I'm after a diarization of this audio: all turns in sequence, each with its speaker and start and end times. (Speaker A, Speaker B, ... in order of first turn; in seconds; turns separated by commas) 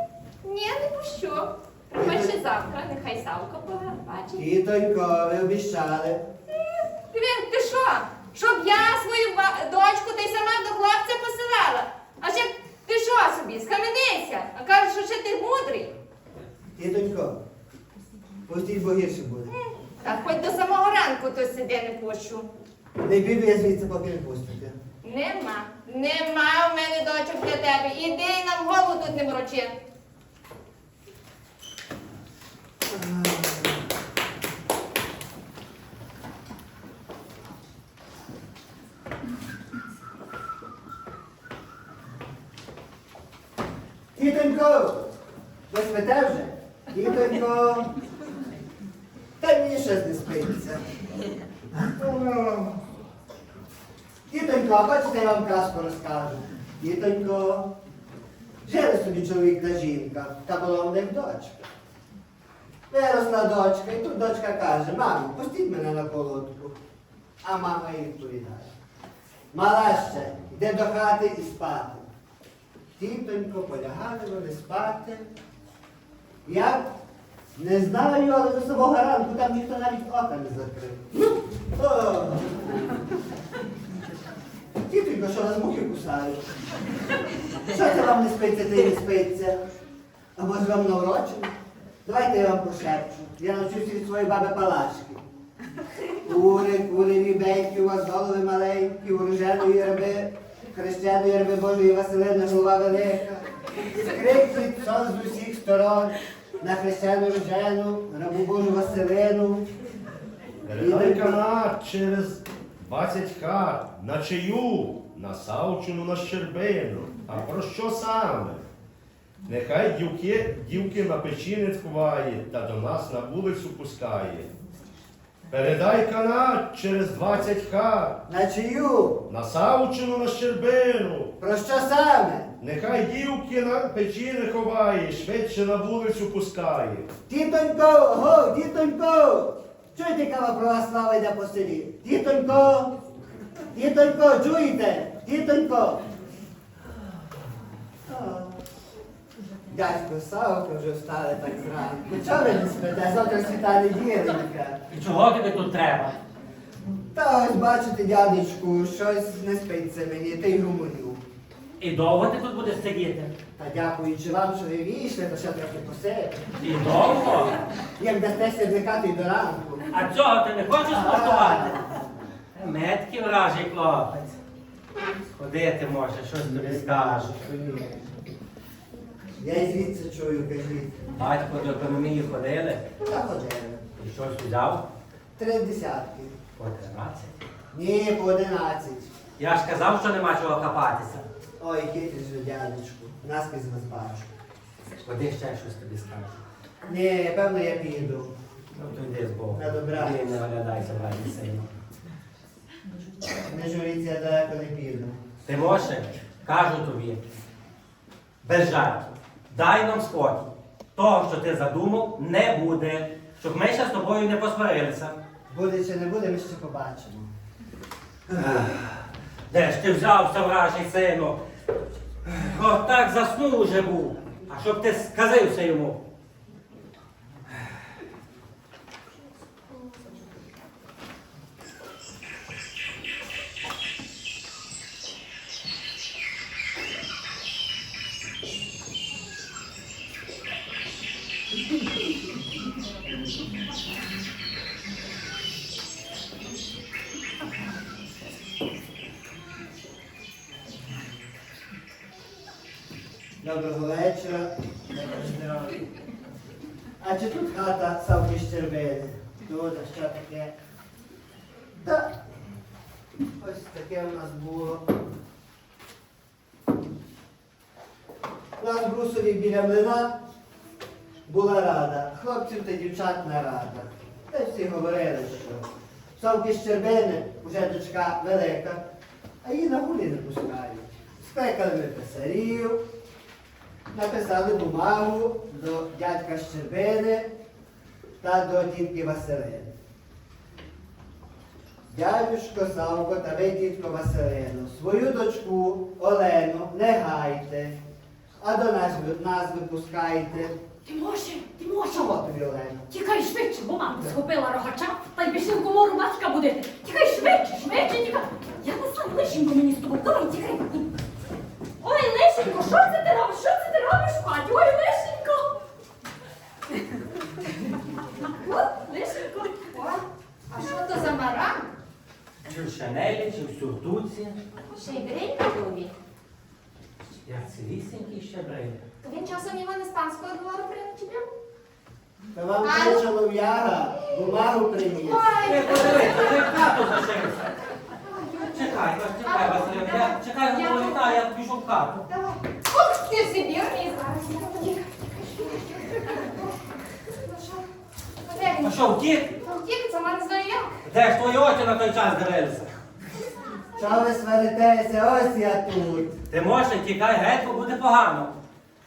Speaker A: 0.4-4.5, Speaker B: 1.9-2.4, Speaker B: 4.3-6.3, Speaker A: 7.1-15.9, Speaker B: 16.8-17.4, Speaker B: 18.4-19.5, Speaker A: 19.5-22.5, Speaker B: 23.0-24.8, Speaker A: 25.0-29.7, Speaker B: 32.9-33.8, Speaker B: 44.1-45.1, Speaker B: 45.7-47.9, Speaker B: 49.4-50.8, Speaker B: 51.7-52.8, Speaker B: 54.3-57.8, Speaker B: 58.6-61.7, Speaker B: 62.9-66.8, Speaker B: 67.4-68.7, Speaker B: 69.5-72.1, Speaker B: 73.0-75.3, Speaker B: 76.4-76.9, Speaker B: 77.5-81.1, Speaker B: 81.7-82.6, Speaker B: 84.8-86.4, Speaker B: 87.6-89.6, Speaker B: 90.3-95.2, Speaker B: 96.2-109.7, Speaker C: 110.7-118.7, Speaker B: 110.8-111.4, Speaker C: 119.5-124.5, Speaker C: 125.5-128.2, Speaker B: 128.3-129.2, Speaker C: 129.3-131.3, Speaker B: 131.4-132.5, Speaker C: 132.6-137.1, Speaker B: 137.3-142.9, Speaker B: 143.7-146.0, Speaker B: 148.1-148.6, Speaker B: 149.7-154.8, Speaker D: 154.9-156.2, Speaker B: 157.1-161.2, Speaker D: 161.8-163.3, Speaker B: 163.6-166.5, Speaker D: 166.6-167.5, Speaker B: 168.0-169.8, Speaker D: 169.9-171.8, Speaker B: 170.9-172.2, Speaker D: 172.5-174.3, Speaker D: 175.3-177.3, Speaker B: 176.4-178.1, Speaker B: 179.4-181.1, Speaker D: 181.1-182.8, Speaker B: 183.0-183.8, Speaker D: 184.0-184.8, Speaker B: 185.3-186.3, Speaker D: 186.6-187.3, Speaker B: 187.7-189.1, Speaker D: 189.4-191.2, Speaker B: 191.6-194.3, Speaker D: 195.0-196.3, Speaker B: 196.8-198.3, Speaker D: 198.7-201.7, Speaker B: 199.5-200.2, Speaker B: 203.4-205.2, Speaker D: 205.4-207.2, Speaker D: 208.4-215.2, Speaker B: 215.5-217.3, Speaker B: 218.3-218.7, Speaker D: 218.3-218.9, Speaker D: 219.5-221.4, Speaker D: 222.2-226.0, Speaker B: 253.4-255.8, Speaker B: 257.0-260.5, Speaker B: 261.7-262.2, Speaker B: 263.4-264.9, Speaker B: 268.6-270.2, Speaker B: 271.2-278.9, Speaker B: 279.4-282.8, Speaker B: 283.9-287.3, Speaker B: 288.2-289.8, Speaker B: 291.9-297.8, Speaker B: 298.4-300.6, Speaker E: 300.8-302.1, Speaker B: 301.9-302.9, Speaker E: 302.9-310.9, Speaker E: 311.8-315.5, Speaker E: 318.2-319.7, Speaker A: 319.7-321.7, Speaker D: 322.4-324.4, Speaker A: 324.7-325.9, Speaker D: 327.2-328.8, Speaker A: 329.0-331.3, Speaker B: 332.3-335.3, Speaker A: 332.6-333.0, Speaker A: 335.0-336.6, Speaker D: 335.4-337.5, Speaker A: 338.0-338.7, Speaker D: 338.4-342.0, Speaker A: 339.2-341.1, Speaker A: 342.1-347.7, Speaker A: 348.2-350.7, Speaker D: 348.6-349.3, Speaker D: 350.9-352.7, Speaker B: 353.8-356.2, Speaker D: 356.3-358.3